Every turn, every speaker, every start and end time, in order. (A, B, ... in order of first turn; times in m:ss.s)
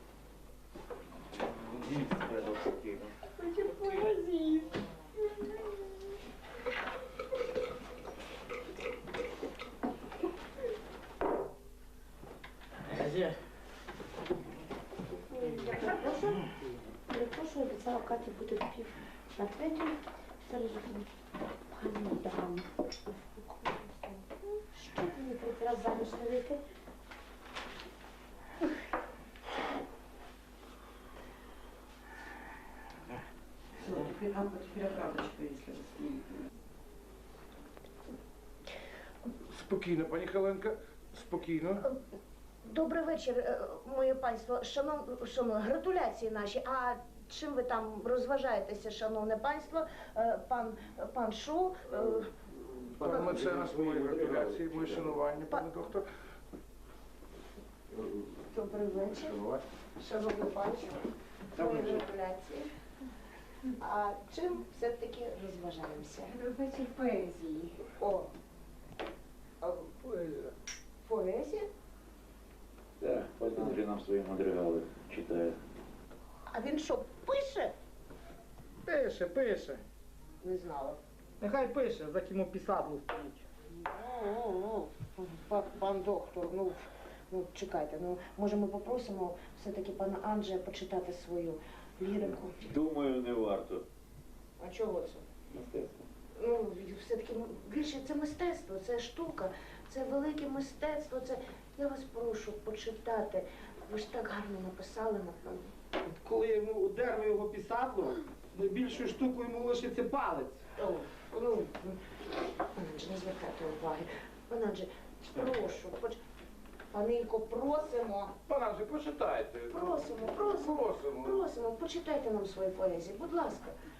0:01.5-0:03.1 A
0:03.4-0:05.9 B
0:15.3-0:16.4 C
0:17.1-0:21.1 C
0:21.7-0:26.6 C
0:39.5-0:41.8 D
0:42.6-0:53.5 C
0:53.0-0:56.1 D
0:53.0-0:55.2 A
0:58.2-0:59.4 C
0:59.1-0:59.6 D
1:00.0-1:01.0 C
1:01.5-1:02.7 C
1:01.6-1:02.0 A
1:03.8-1:06.3 C
1:06.3-1:07.8 B
1:08.0-1:08.3 C
1:09.6-1:10.5 C
1:11.0-1:11.7 C
1:13.0-1:15.6 A
1:16.5-1:17.7 C
1:18.9-1:19.8 E
1:20.4-1:21.0 C
1:21.4-1:23.4 E
1:23.7-1:32.8 C
1:32.6-1:33.8 A
1:34.6-1:35.2 C
1:36.4-1:45.7 C
1:46.2-1:50.5 E
1:50.8-1:52.0 C
1:52.8-1:56.2 C
1:56.9-1:58.3 C
1:58.5-2:01.5 D
1:59.7-2:03.8 C